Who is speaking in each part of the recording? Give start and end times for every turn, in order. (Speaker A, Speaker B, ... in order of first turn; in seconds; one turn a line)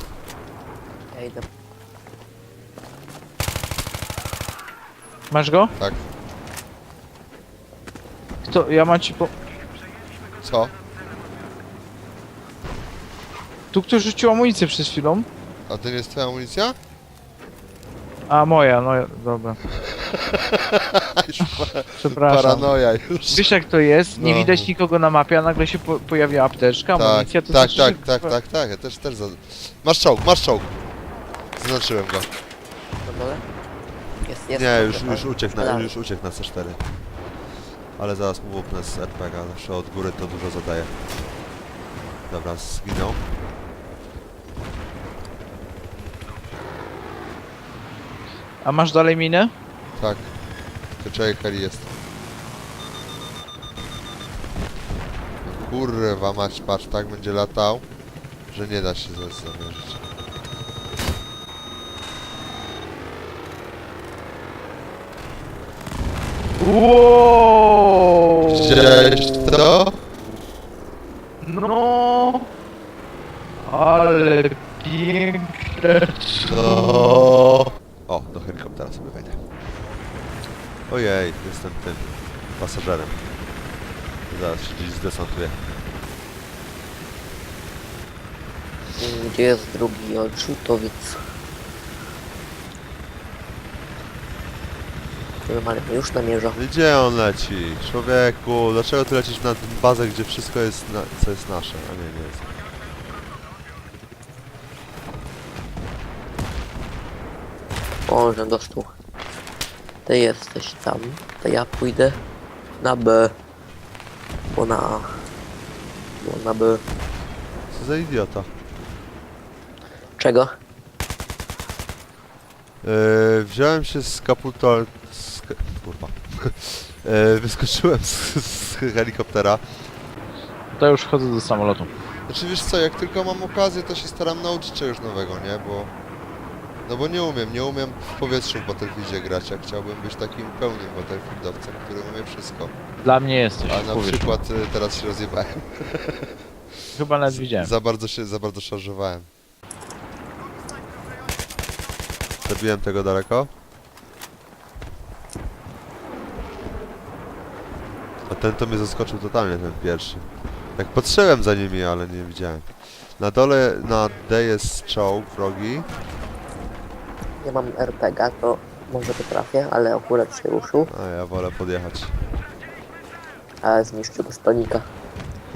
Speaker A: 1.1-1.4
Speaker B: 5.3-5.7
Speaker C: 5.7-6.0
Speaker B: 8.4-9.3
Speaker C: 10.4-10.7
Speaker B: 13.7-15.3
Speaker C: 15.7-16.8
Speaker B: 18.3-19.6
Speaker C: 20.0-23.6
Speaker B: 22.0-22.7
Speaker B: 23.2-28.3
Speaker C: 24.1-24.7
Speaker C: 26.9-30.8
Speaker C: 31.6-32.3
Speaker A: 33.0-33.5
Speaker C: 34.1-37.0
Speaker A: 34.2-35.9
Speaker C: 38.0-41.0
Speaker C: 42.3-43.3
Speaker B: 48.6-49.5
Speaker C: 50.0-50.4
Speaker C: 51.0-51.9
Speaker C: 55.4-57.9
Speaker C: 58.5-60.0
Speaker B: 66.6-69.2
Speaker C: 68.4-70.0
Speaker B: 71.4-72.5
Speaker B: 73.6-77.0
Speaker C: 76.4-77.4
Speaker C: 78.1-79.4
Speaker C: 80.9-83.2
Speaker C: 84.3-85.8
Speaker A: 89.0-91.2
Speaker A: 95.4-96.6
Speaker C: 96.5-102.5
Speaker A: 108.1-108.9
Speaker A: 110.0-112.2
Speaker A: 112.8-113.3
Speaker A: 114.5-115.2
Speaker A: 116.2-116.8
Speaker C: 117.7-118.5
Speaker A: 120.2-120.5
Speaker C: 122.8-129.7
Speaker B: 130.7-131.9
Speaker C: 132.3-135.9
Speaker C: 136.8-142.7
Speaker B: 143.0-144.3
Speaker C: 143.7-146.3
Speaker B: 146.9-147.7
Speaker C: 147.3-149.3
Speaker C: 152.4-153.5
Speaker C: 158.3-165.9
Speaker A: 167.4-170.9
Speaker C: 170.9-172.2
Speaker A: 173.6-174.9